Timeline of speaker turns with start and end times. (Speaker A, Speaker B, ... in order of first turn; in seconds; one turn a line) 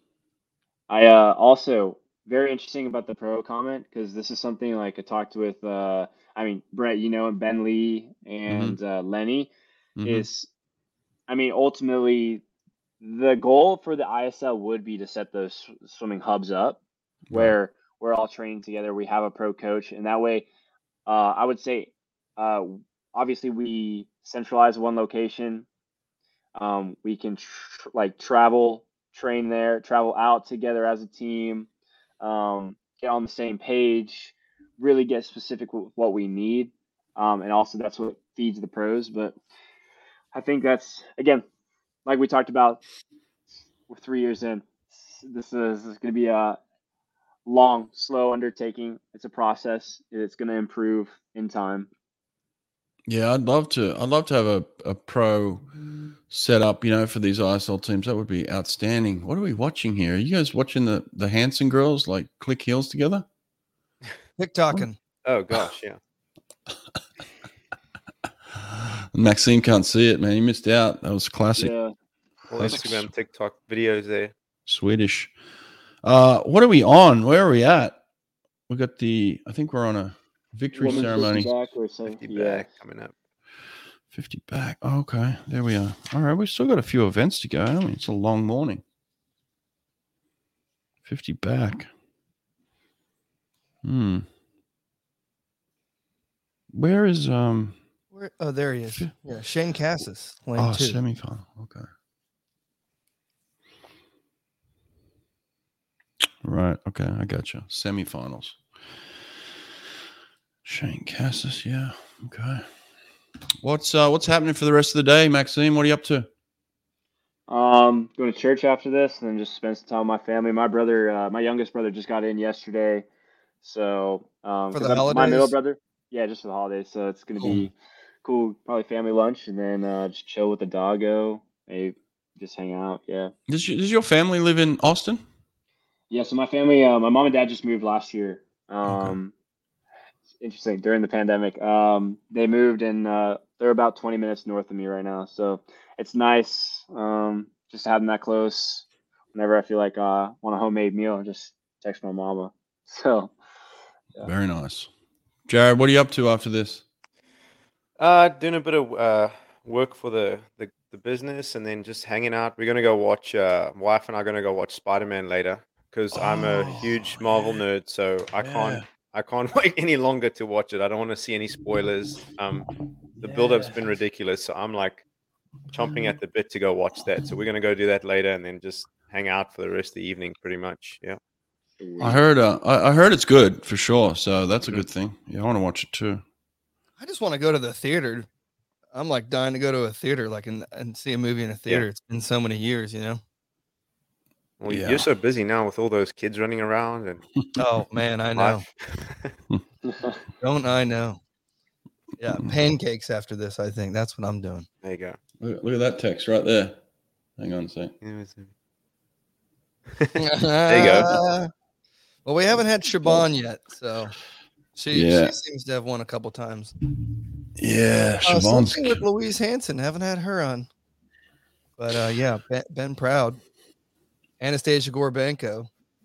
Speaker A: 0.9-9.5
Speaker B: 8.5-8.8
Speaker B: 10.0-10.3
Speaker A: 10.0-10.5
Speaker A: 11.3-12.4
Speaker A: 13.0-16.8
Speaker B: 17.3-17.5
Speaker A: 17.3-20.4
Speaker A: 21.1-25.6
Speaker A: 26.5-31.7
Speaker A: 32.2-39.4
Speaker A: 40.3-41.4
Speaker A: 42.0-42.8
Speaker A: 43.9-46.6
Speaker A: 47.4-51.9
Speaker B: 53.1-55.6
Speaker B: 56.3-63.2
Speaker C: 64.4-65.0
Speaker D: 65.2-66.0
Speaker B: 68.5-71.7
Speaker A: 71.6-71.9
Speaker D: 72.5-74.3
Speaker B: 72.6-73.1
Speaker B: 74.7-75.3
Speaker B: 76.0-78.0
Speaker B: 78.7-81.5
Speaker A: 80.7-82.7
Speaker D: 82.0-83.1
Speaker B: 84.1-88.8
Speaker B: 91.0-91.9
Speaker B: 93.8-94.2
Speaker B: 96.7-97.8
Speaker C: 98.1-101.0
Speaker B: 100.5-101.9
Speaker B: 106.4-108.6
Speaker B: 110.6-112.6
Speaker B: 113.6-116.3
Speaker A: 117.5-123.0
Speaker A: 123.6-133.3
Speaker C: 124.7-125.5
Speaker B: 127.4-127.7
Speaker B: 133.5-135.2
Speaker A: 136.1-139.3
Speaker B: 138.8-139.2
Speaker A: 140.4-153.3
Speaker B: 154.2-154.9
Speaker B: 155.5-156.8
Speaker D: 158.0-172.7
Speaker B: 166.1-167.6
Speaker B: 168.4-168.8
Speaker D: 173.2-175.0
Speaker B: 173.2-173.9
Speaker D: 175.7-181.2
Speaker B: 175.7-176.2
Speaker A: 181.8-182.2
Speaker B: 182.0-186.2
Speaker C: 187.0-188.3
Speaker C: 188.9-193.2
Speaker D: 194.6-197.2
Speaker B: 194.7-195.1
Speaker C: 197.6-198.6
Speaker D: 198.3-199.3
Speaker A: 199.9-200.1
Speaker C: 200.4-201.2
Speaker C: 202.2-204.7
Speaker D: 204.8-205.2
Speaker B: 205.4-206.8
Speaker B: 207.4-207.9
Speaker D: 208.0-208.5
Speaker C: 210.2-211.5
Speaker D: 210.7-211.2
Speaker C: 212.2-214.1
Speaker C: 214.7-216.7
Speaker B: 214.9-215.3
Speaker B: 217.6-219.0
Speaker C: 218.2-220.7
Speaker C: 221.8-223.4
Speaker C: 224.4-225.7